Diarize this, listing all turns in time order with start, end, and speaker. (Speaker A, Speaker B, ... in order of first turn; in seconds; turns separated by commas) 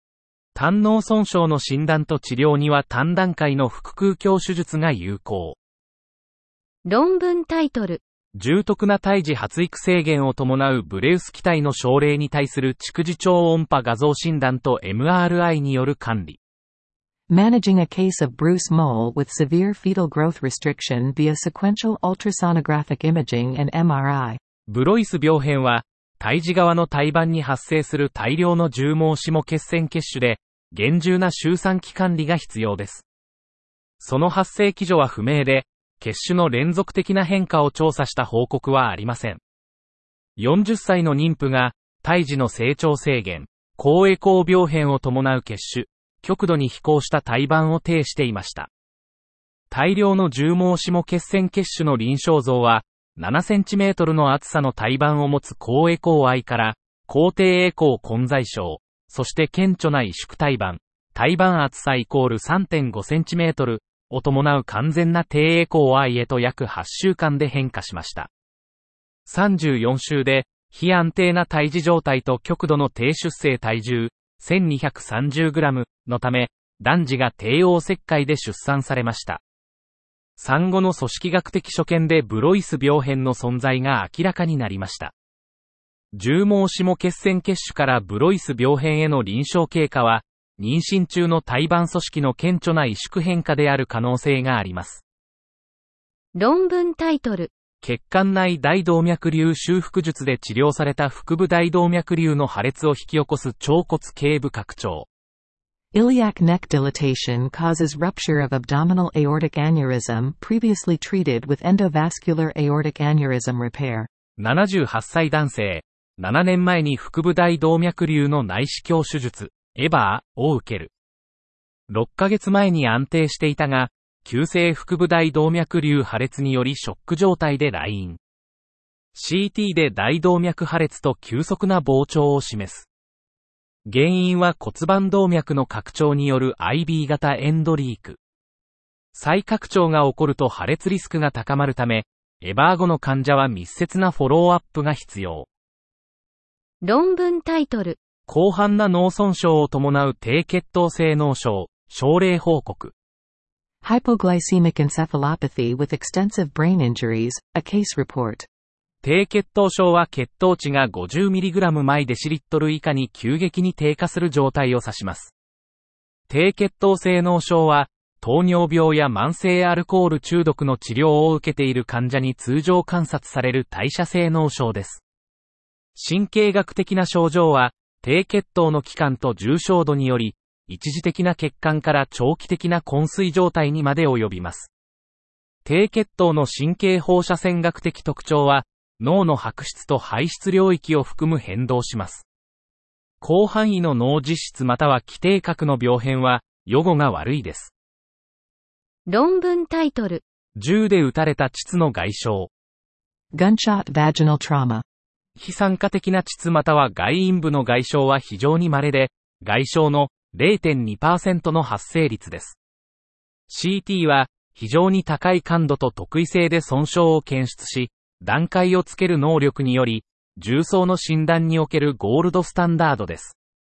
Speaker A: 0.6-5.6, Speaker B: 6.8-8.0, Speaker A: 8.4-16.4, Speaker C: 17.3-24.4, Speaker A: 24.7-33.0, Speaker A: 34.0-39.4, Speaker A: 40.4-48.7, Speaker A: 49.7-68.3, Speaker A: 69.3-79.4, Speaker A: 80.4-85.1, Speaker A: 86.1-95.0, Speaker B: 96.3-97.5, Speaker A: 97.8-105.1, Speaker C: 105.9-114.1, Speaker A: 114.4-120.9, Speaker A: 121.9-128.2, Speaker A: 129.2-132.9, Speaker A: 133.9-138.2, Speaker A: 139.2-145.5, Speaker B: 146.8-148.0, Speaker A: 148.3-152.9, Speaker C: 153.8-158.5, Speaker A: 159.0-165.3, Speaker A: 166.3-175.0, Speaker A: 176.0-184.7, Speaker A: 185.7-192.3, Speaker A: 193.2-197.7, Speaker B: 199.1-200.2, Speaker A: 200.6-202.5, Speaker C: 203.3-204.8, Speaker A: 205.4-212.6, Speaker A: 213.5-223.4